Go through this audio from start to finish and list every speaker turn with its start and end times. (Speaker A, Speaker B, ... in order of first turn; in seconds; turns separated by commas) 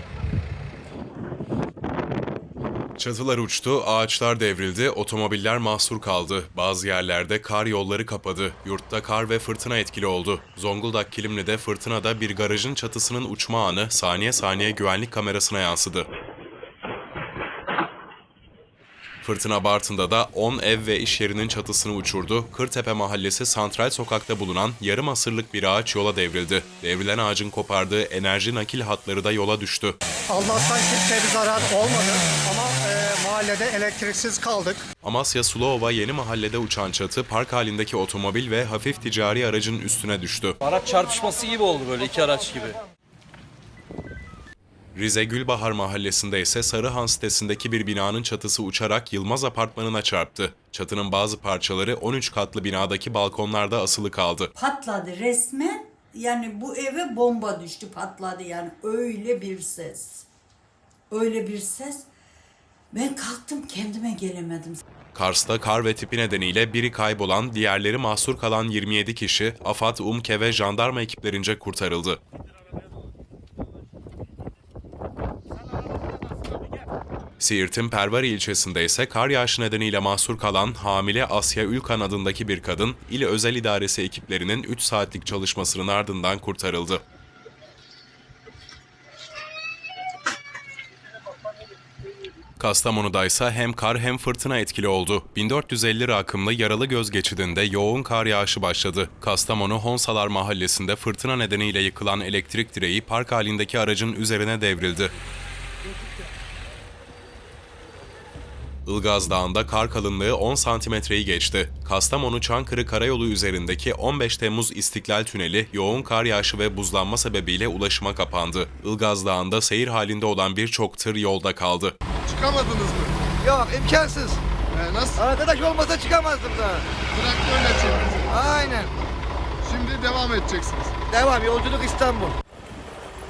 Speaker A: 3.0-16.1, Speaker A: 19.2-30.0, Speaker B: 30.3-34.9, Speaker A: 35.0-40.6, Speaker C: 40.6-42.8, Speaker A: 44.9-54.5, Speaker D: 54.5-60.2, Speaker D: 61.1-62.1, Speaker D: 62.9-64.8, Speaker A: 65.1-72.2, Speaker A: 77.4-87.0, Speaker A: 92.6-105.1, Speaker A: 108.8-122.0, Speaker E: 122.3-123.2, Speaker F: 123.4-124.4, Speaker E: 124.7-125.2, Speaker F: 125.2-126.9, Speaker E: 127.1-128.2, Speaker F: 128.3-128.9, Speaker E: 129.6-130.9, Speaker F: 131.1-132.3